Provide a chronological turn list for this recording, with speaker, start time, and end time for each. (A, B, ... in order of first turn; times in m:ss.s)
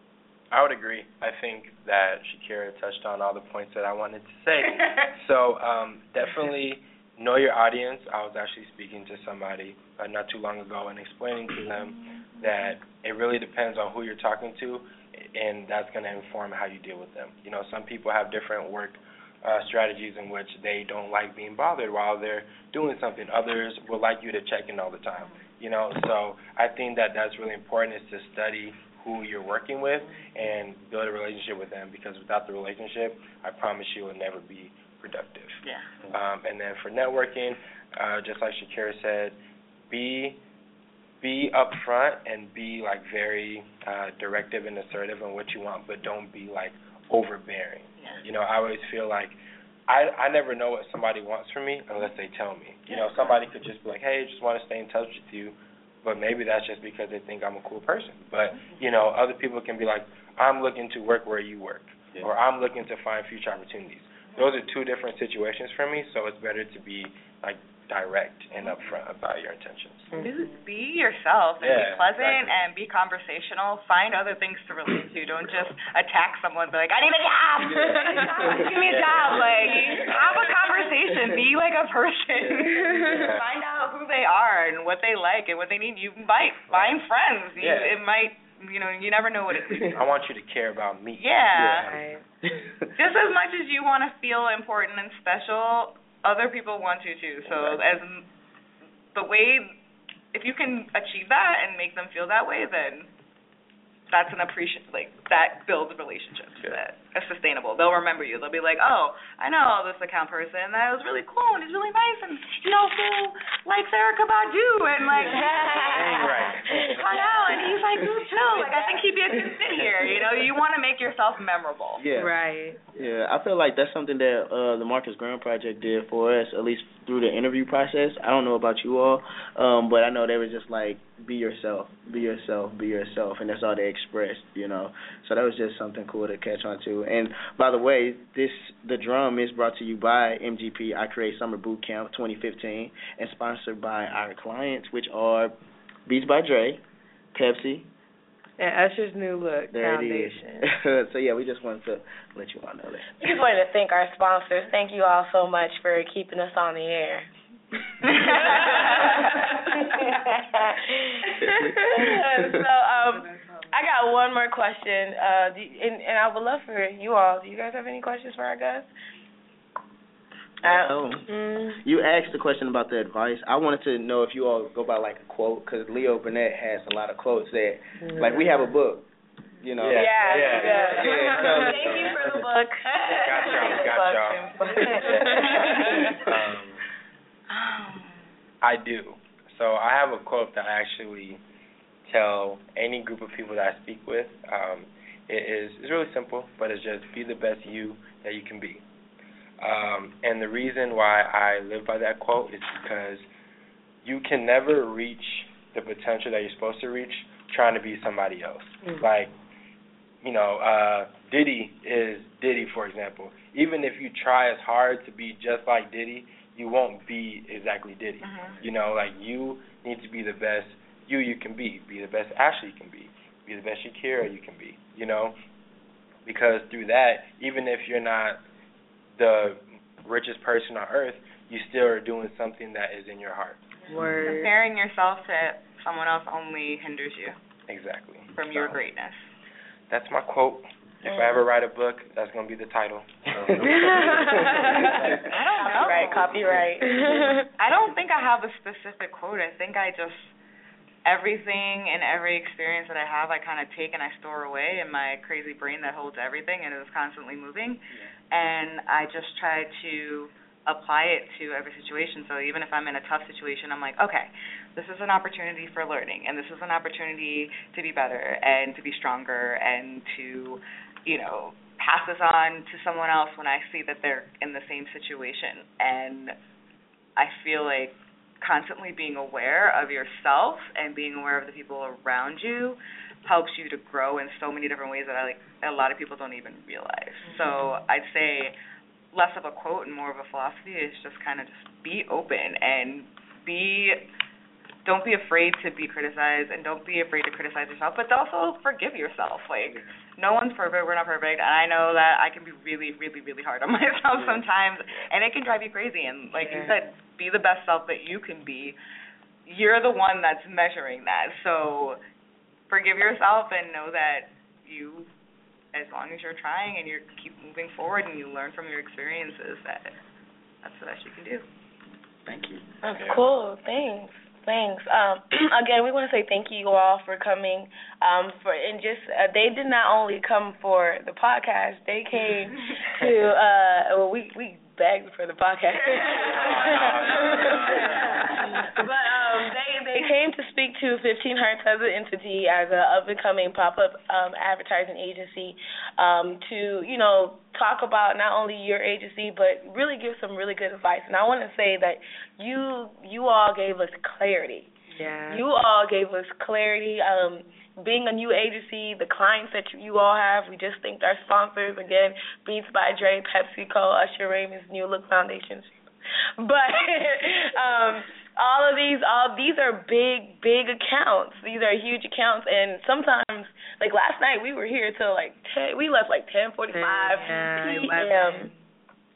0:00.5-0:39.4 A
0:35.6-0:35.9 B
0:39.9-0:40.4 A
0:41.2-1:10.1 A
1:10.1-1:10.5 C
1:10.2-1:30.1 B
1:11.6-1:12.6 A
1:17.8-1:18.3 C
1:17.8-1:18.8 D
1:18.7-1:20.6 A
1:19.4-1:19.9 D
1:21.1-1:21.4 D
1:22.4-1:23.2 D
1:22.6-1:23.3 C
1:23.1-1:23.5 A
1:26.7-1:27.0 A
1:27.6-1:28.0 A
1:29.9-1:32.0 A
1:31.2-1:31.9 B
1:31.5-1:31.8 D
1:31.9-1:32.2 C
1:32.5-1:32.9 D
1:33.0-1:38.3 B
1:37.5-1:37.8 D
1:39.1-1:39.8 B
1:40.3-1:43.1 B
1:44.1-2:02.0 B
1:55.3-1:56.2 C
1:55.8-1:57.2 A
1:59.5-2:00.1 D
2:02.0-2:02.4 D
2:02.2-2:02.8 C
2:02.9-2:25.5 D
2:26.1-2:26.8 D
2:27.3-2:27.9 D
2:28.6-2:30.7 C
2:29.7-2:33.1 D
2:33.2-2:37.3 E
2:38.1-2:39.3 B
2:38.3-2:39.0 E
2:38.5-2:38.9 C
2:39.7-2:48.9 E
2:41.4-2:42.4 D
2:43.0-2:43.7 C
2:50.6-2:50.9 E
2:50.6-2:59.1 D
2:51.3-2:51.7 C
2:58.0-2:58.6 C
2:59.6-3:02.2 D
2:59.8-3:01.1 A
2:59.9-3:06.1 E
3:00.3-3:01.8 C
3:01.7-3:02.5 A
3:03.1-3:06.8 A
3:03.3-3:06.2 B
3:04.8-3:05.7 C
3:07.5-3:08.2 B
3:08.6-3:11.4 A
3:12.1-3:18.8 A
3:19.6-3:23.3 A
3:24.0-3:29.3 A
3:30.2-3:45.4 A
3:38.2-3:38.6 B
3:46.2-3:48.4 A
3:49.2-3:54.0 A
3:53.9-3:54.5 C
3:54.2-3:57.4 B
3:57.7-3:58.8 A
3:58.4-3:59.2 B
3:59.9-4:05.3 A
4:01.1-4:01.4 E
4:03.4-4:05.3 D
4:03.6-4:05.0 C
4:05.3-4:06.3 B
4:05.6-4:07.4 E
4:06.3-4:06.6 D
4:06.8-4:07.5 C
4:07.6-4:10.3 B
4:11.0-4:36.4 B
4:37.2-4:48.5 B
4:47.3-4:47.6 C
4:49.1-4:54.1 B
4:54.8-5:08.8 B
5:06.4-5:06.8 C
5:09.5-5:12.0 B
5:12.7-5:15.1 B
5:15.7-5:20.0 B
5:20.6-5:21.4 B
5:22.3-5:22.6 D
5:22.8-5:54.7 E
5:22.9-5:23.2 A
5:35.9-5:38.2 B
5:36.1-5:38.5 A
5:54.9-5:55.4 C
5:55.3-6:05.8 E
6:06.4-6:18.5 E
6:16.7-6:18.5 C